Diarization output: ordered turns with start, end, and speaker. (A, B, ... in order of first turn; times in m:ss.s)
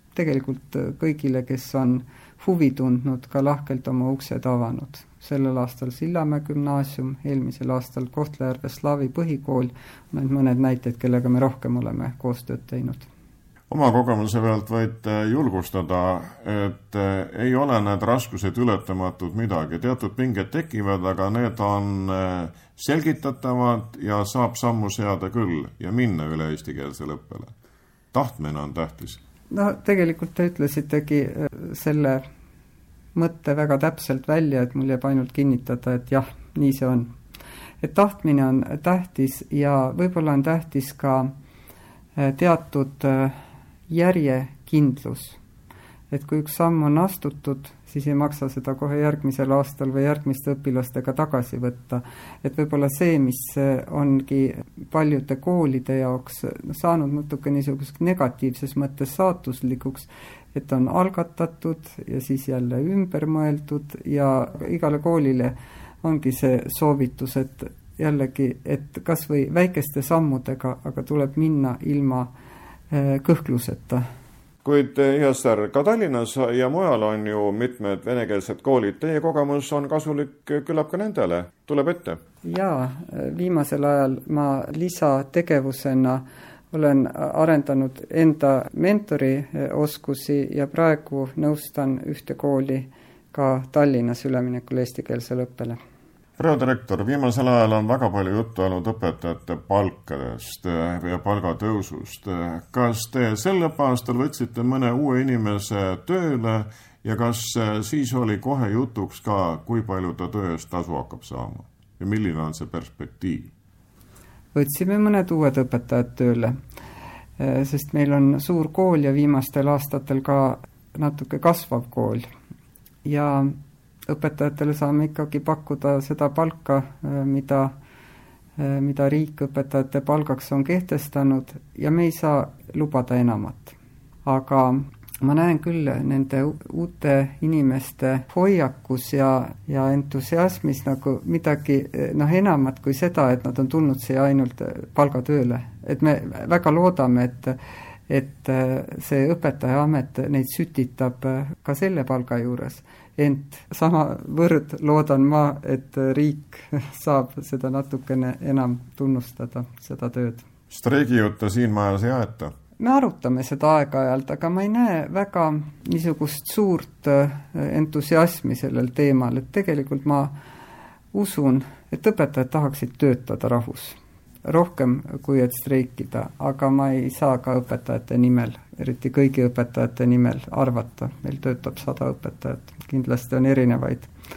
0:00.1-0:13.1 A
0:13.7-0:27.5 B
0:28.1-0:29.2 B
0:29.5-0:32.2 A
0:33.1-0:37.1 A
0:37.8-0:41.3 A
0:42.2-0:43.4 A
0:43.9-0:45.4 A
0:46.1-1:12.3 A
1:12.9-1:14.0 A
1:14.6-1:22.2 B
1:22.4-1:35.8 A
1:36.4-1:53.5 B
1:54.5-1:56.5 A
1:57.4-2:02.2 A
2:03.0-2:03.5 A
2:04.1-2:07.7 A
2:08.6-2:27.6 A
2:28.1-2:40.4 A
2:40.7-2:42.5 B
2:42.8-2:50.3 A
2:51.1-3:04.1 A